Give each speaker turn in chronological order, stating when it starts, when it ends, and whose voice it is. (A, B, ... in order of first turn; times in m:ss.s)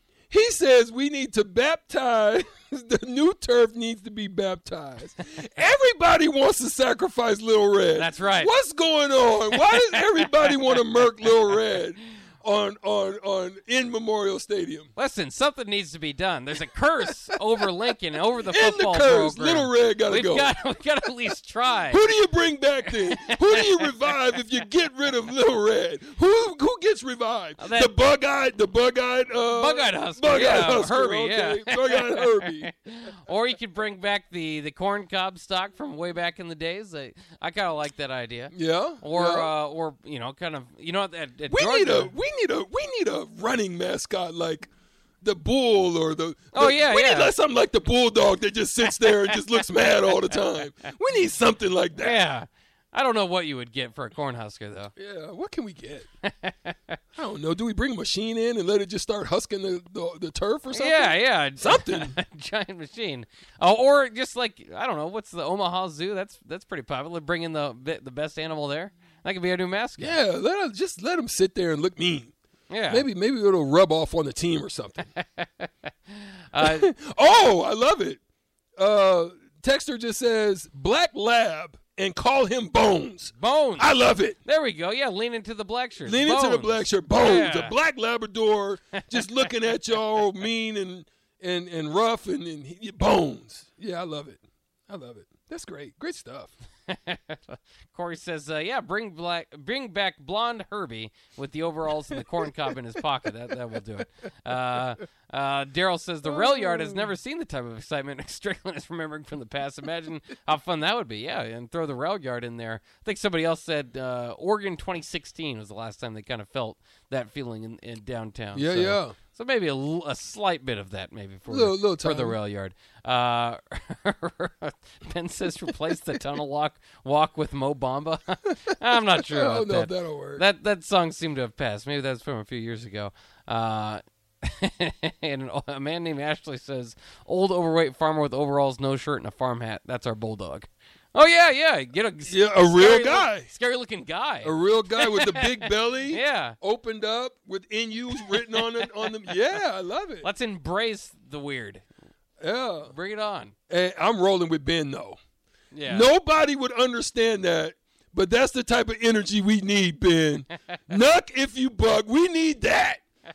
0:00.3-0:14.9 A
0:08.0-0:08.5 B
0:09.5-0:10.8 B
0:15.0-0:22.0 B
0:18.4-0:20.5 A
0:21.9-0:32.7 A
0:23.1-0:23.9 B
0:27.6-0:27.9 B
0:29.5-0:42.1 B
0:38.5-0:39.5 A
0:41.5-0:44.7 A
0:45.2-0:52.2 A
0:46.5-0:47.3 B
0:52.0-0:54.9 B
0:55.0-0:56.1 A
0:56.2-0:56.9 B
0:57.1-1:02.2 A
1:00.7-1:10.2 B
1:10.0-1:12.3 A
1:12.7-1:13.0 B
1:12.9-1:15.1 A
1:15.2-1:16.9 B
1:16.6-1:18.2 A
1:18.8-1:24.4 A
1:23.4-1:27.7 B
1:26.0-1:36.5 A
1:36.9-2:26.6 B
1:46.3-1:47.1 A
1:58.5-1:59.2 A
2:01.5-2:02.4 A
2:09.2-2:10.4 A
2:22.3-2:23.5 A
2:24.4-2:30.2 A
2:28.2-2:29.1 B
2:30.2-2:31.8 B
2:32.4-2:32.9 A
2:32.9-2:33.5 B
2:33.7-2:35.2 A
2:35.7-2:36.1 B
2:35.8-2:43.0 A